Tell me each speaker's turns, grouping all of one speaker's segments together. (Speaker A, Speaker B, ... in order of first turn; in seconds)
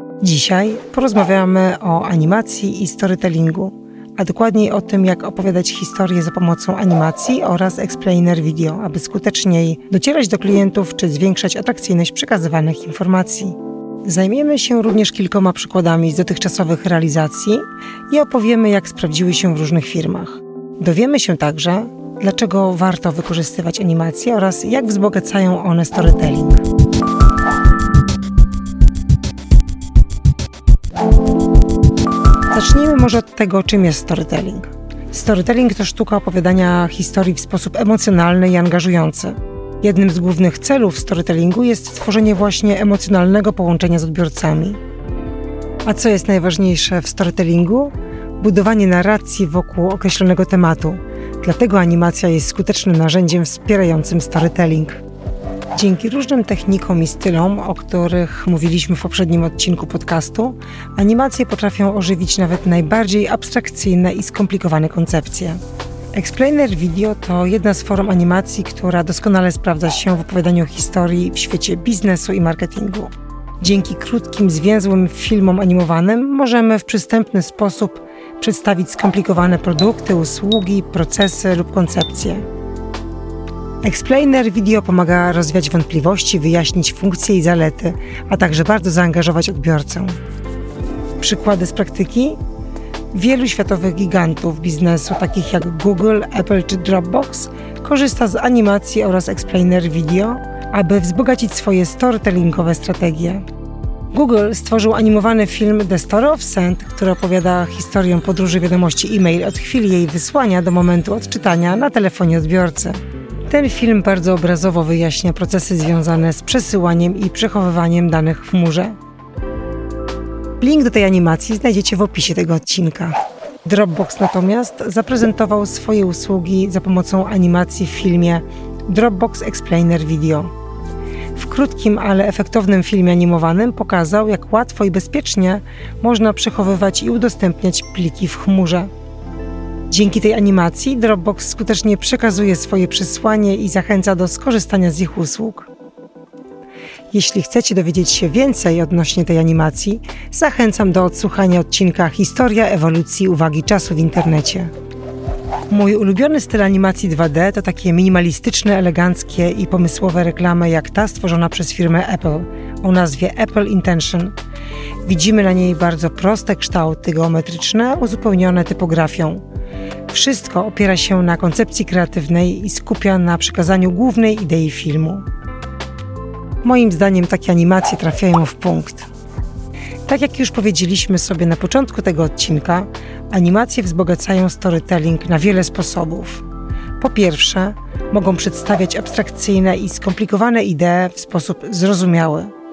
Speaker A: 0.2-26.6, 32.5-44.8, 45.8-55.0, 55.7-65.6, 66.1-82.4, 83.8-90.1, 91.2-92.4, 93.1-103.4, 104.1-119.0, 120.6-130.5, 131.3-138.9, 139.9-145.7, 147.1-154.7, 155.7-164.3, 165.0-169.4, 170.1-175.2, 176.6-179.1, 180.1-186.4, 187.0-192.5